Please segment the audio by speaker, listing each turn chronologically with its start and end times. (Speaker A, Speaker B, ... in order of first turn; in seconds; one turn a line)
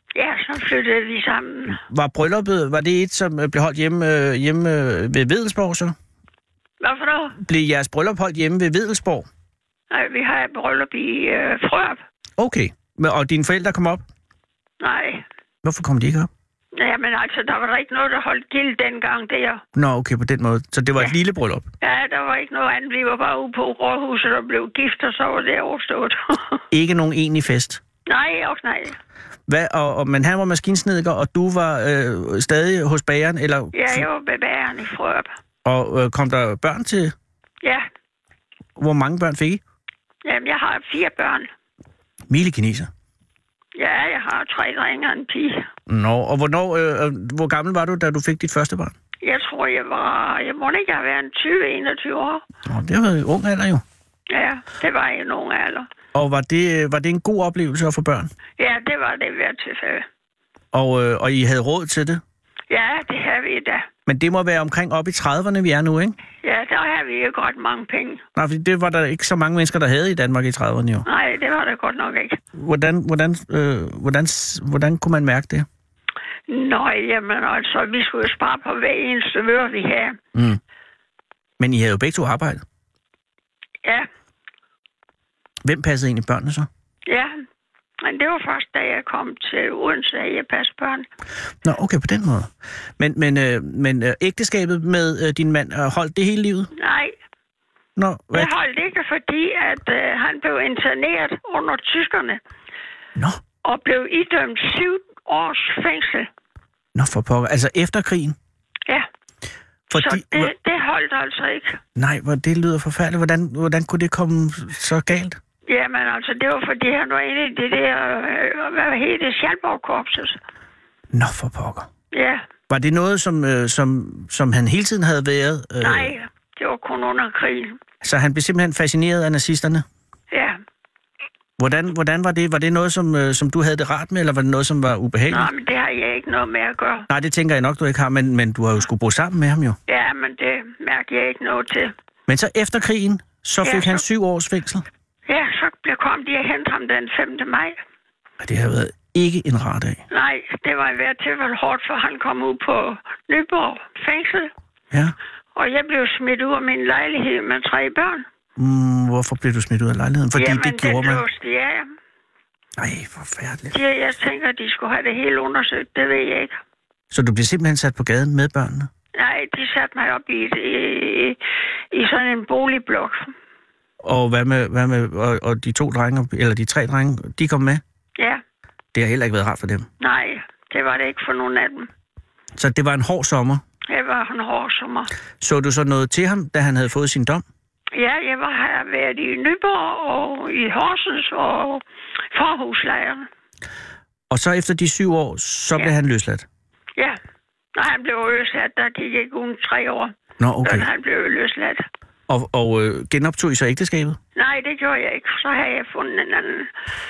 Speaker A: 0.1-1.8
Speaker B: 1.7-5.9
Speaker A: 6.8-7.3
Speaker B: 7.4-9.3
Speaker A: 9.9-12.0
Speaker B: 12.4-14.0
Speaker A: 14.8-15.2
Speaker B: 15.6-16.3
Speaker A: 16.7-19.6
Speaker B: 19.7-21.7
Speaker A: 21.8-26.6
Speaker B: 26.7-27.8
Speaker A: 28.1-29.0
Speaker B: 29.5-34.1
Speaker A: 33.7-35.3
Speaker B: 35.6-37.1
Speaker B: 38.8-39.6
Speaker A: 40.2-41.5
Speaker B: 42.3-42.9
Speaker A: 43.7-45.7
Speaker B: 45.9-48.9
Speaker A: 49.2-52.4
Speaker B: 52.6-53.8
Speaker A: 54.3-55.9
Speaker B: 56.1-58.3
Speaker A: 58.6-60.1
Speaker B: 60.7-62.2
Speaker A: 62.7-63.9
Speaker B: 64.1-66.2
Speaker A: 66.4-68.2
Speaker B: 68.3-71.0
Speaker A: 71.0-72.4
Speaker B: 72.5-75.7
Speaker A: 76.5-80.2
Speaker B: 80.3-80.6
Speaker B: 81.6-82.6
Speaker B: 85.6-86.7
Speaker A: 87.1-87.4
Speaker A: 88.0-91.0
Speaker B: 91.6-96.7
Speaker A: 96.8-97.1
Speaker B: 98.0-98.5
Speaker A: 98.3-102.4
Speaker A: 103.6-106.3
Speaker B: 106.9-108.3
Speaker B: 109.9-110.5
Speaker A: 109.9-111.8
Speaker B: 112.0-115.4
Speaker A: 115.7-120.4
Speaker B: 121.1-121.9
Speaker A: 122.1-122.5
Speaker B: 122.7-126.1
Speaker A: 125.8-127.8
Speaker B: 128.0-129.8
Speaker A: 130.3-130.6
Speaker B: 131.6-135.5
Speaker A: 135.3-137.1
Speaker B: 137.1-139.8
Speaker A: 139.9-141.9
Speaker B: 142.3-144.8
Speaker A: 143.6-144.0
Speaker A: 145.3-147.8
Speaker B: 148.4-150.0
Speaker A: 150.1-154.5
Speaker A: 155.5-158.2
Speaker B: 158.6-161.2
Speaker A: 160.3-161.9
Speaker B: 162.8-163.8
Speaker A: 163.7-166.6
Speaker B: 167.1-168.9
Speaker A: 169.2-171.4
Speaker A: 171.9-173.3
Speaker B: 174.0-177.8
Speaker B: 178.9-179.9
Speaker A: 180.0-181.9
Speaker B: 182.5-183.6
Speaker A: 183.9-185.1
Speaker B: 185.4-187.4
Speaker A: 187.9-193.3
Speaker B: 194.3-196.4
Speaker A: 197.8-200.1
Speaker B: 200.4-200.9
Speaker A: 200.6-201.8
Speaker B: 202.3-204.2
Speaker A: 204.3-206.7